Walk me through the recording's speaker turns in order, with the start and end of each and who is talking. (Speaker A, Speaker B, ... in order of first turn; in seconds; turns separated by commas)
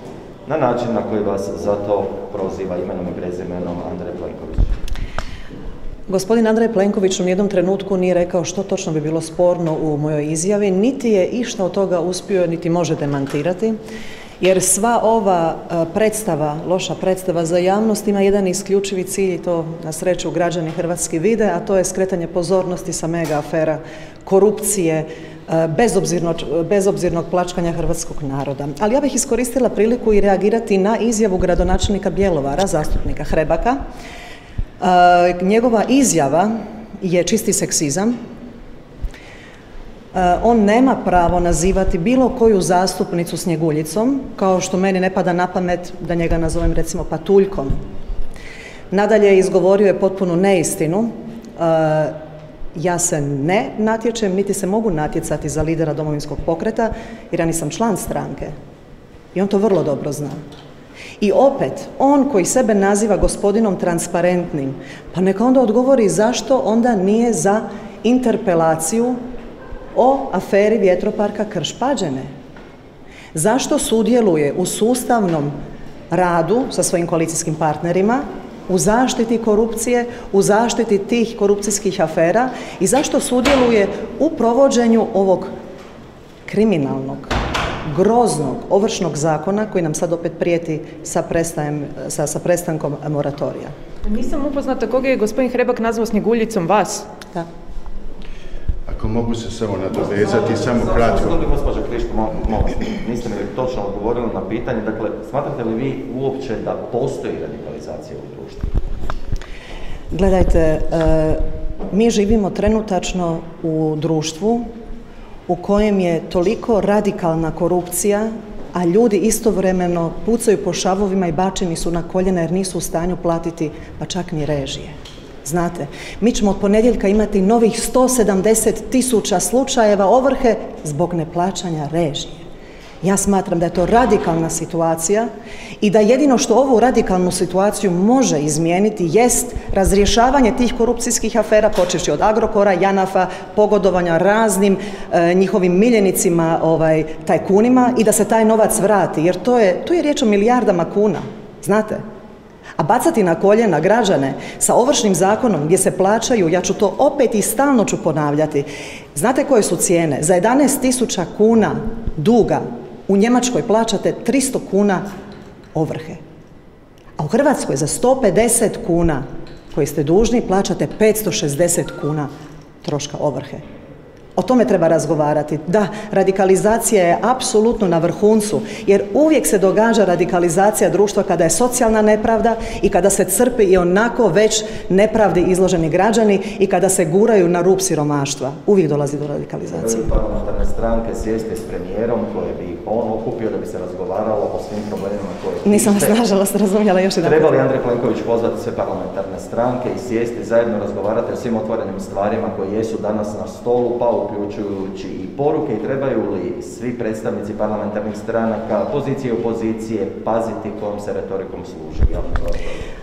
Speaker A: 0.5-4.8, Speaker B: 6.1-13.8, Speaker B: 14.4-33.8, Speaker B: 34.8-38.1, Speaker B: 40.1-47.8, Speaker B: 48.9-52.1, Speaker B: 52.8-58.5, Speaker B: 59.3-60.4, Speaker B: 61.2-69.2, Speaker B: 69.9-72.3, Speaker B: 73.3-75.5, Speaker B: 76.1-85.5, Speaker B: 86.5-93.7, Speaker C: 94.1-97.1, Speaker D: 98.9-101.4, Speaker A: 99.9-108.7, Speaker B: 110.1-111.4, Speaker B: 111.9-114.6, Speaker B: 115.5-132.4, Speaker B: 133.0-152.0, Speaker B: 152.8-165.1, Speaker B: 165.7-166.2, Speaker B: 167.2-172.3, Speaker B: 172.8-173.6, Speaker B: 174.4-190.1, Speaker A: 189.7-196.2, Speaker B: 195.7-197.6, Speaker A: 197.2-212.8